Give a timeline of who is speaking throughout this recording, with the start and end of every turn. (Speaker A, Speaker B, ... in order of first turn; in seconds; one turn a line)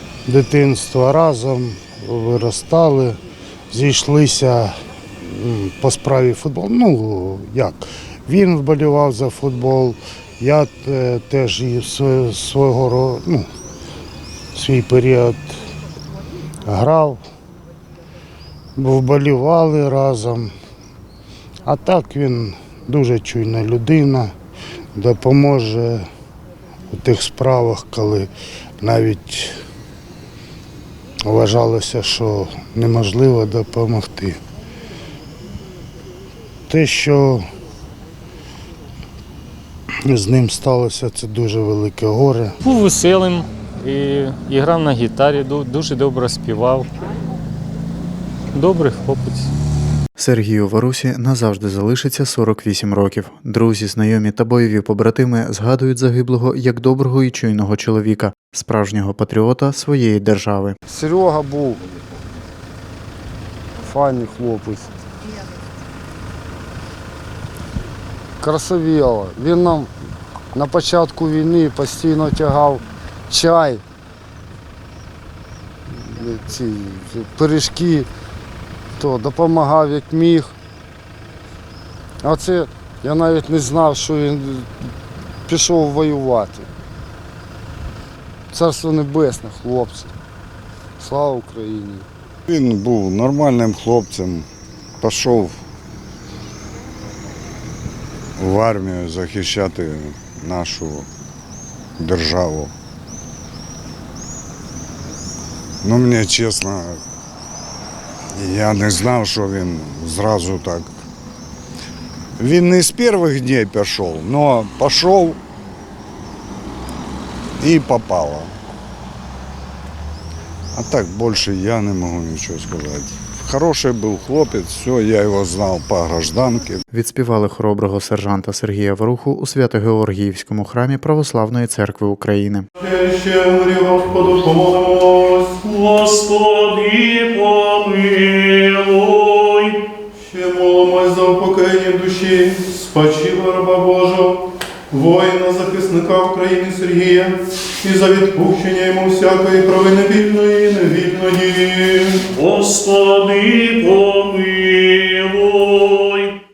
Speaker A: 0.2-3.2
Speaker A: 3.7-13.5
Speaker A: 14.5-15.6
Speaker A: 16.6-17.2
Speaker A: 18.8-20.5
Speaker A: 21.6-24.3
Speaker A: 24.9-26.1
Speaker A: 26.9-29.6
Speaker A: 31.2-34.4
Speaker A: 36.7-37.5
Speaker A: 40.0-42.5
Speaker B: 42.6-46.9
Speaker B: 48.5-49.5
Speaker C: 50.2-60.8
Speaker D: 60.9-61.8
Speaker D: 63.8-64.9
Speaker D: 68.4-69.9
Speaker D: 70.5-73.8
Speaker D: 75.9-78.1
Speaker D: 79.0-80.5
Speaker D: 82.2-84.7
Speaker D: 85.5-86.7
Speaker D: 88.5-90.1
Speaker D: 91.0-92.1
Speaker E: 92.5-94.5
Speaker E: 95.0-95.5
Speaker E: 98.4-101.1
Speaker E: 102.0-102.7
Speaker E: 105.8-107.0
Speaker E: 108.3-110.9
Speaker E: 112.4-115.4
Speaker E: 117.6-118.5
Speaker E: 120.7-126.8
Speaker C: 126.9-132.7
Speaker F: 132.8-136.0
Speaker G: 136.0-139.8
Speaker F: 136.6-137.0
Speaker F: 140.1-152.3
Speaker G: 152.3-156.4